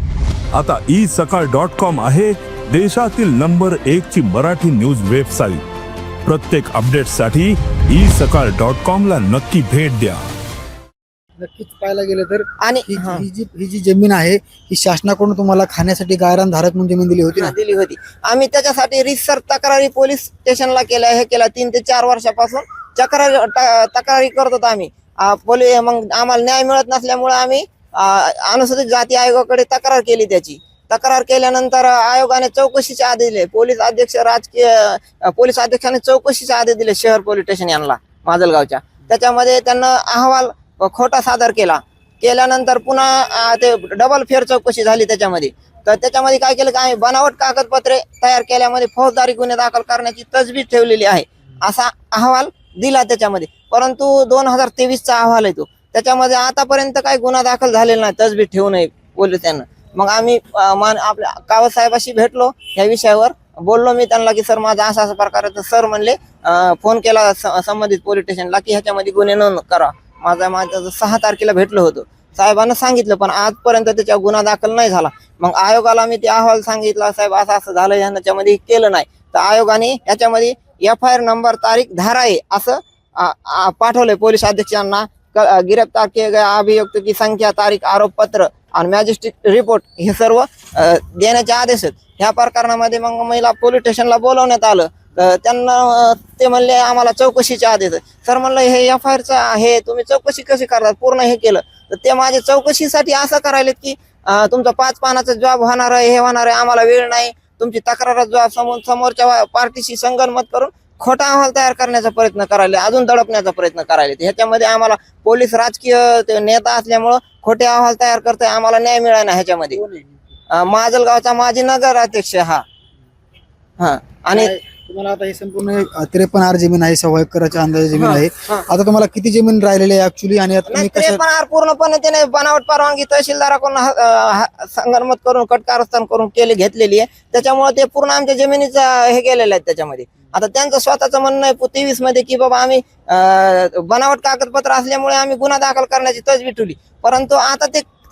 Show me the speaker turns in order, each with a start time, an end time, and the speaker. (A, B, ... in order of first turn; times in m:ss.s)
0:00.5-0:05.6 A
0:06.2-0:10.2 A
0:11.4-0:17.5 B
0:12.6-0:13.2 C
0:17.3-1:59.8 C
1:59.7-2:00.2 B
2:00.5-2:02.6 C
2:03.8-2:04.5 C
2:04.3-2:11.2 B
2:07.9-2:08.6 C
2:10.7-2:27.9 C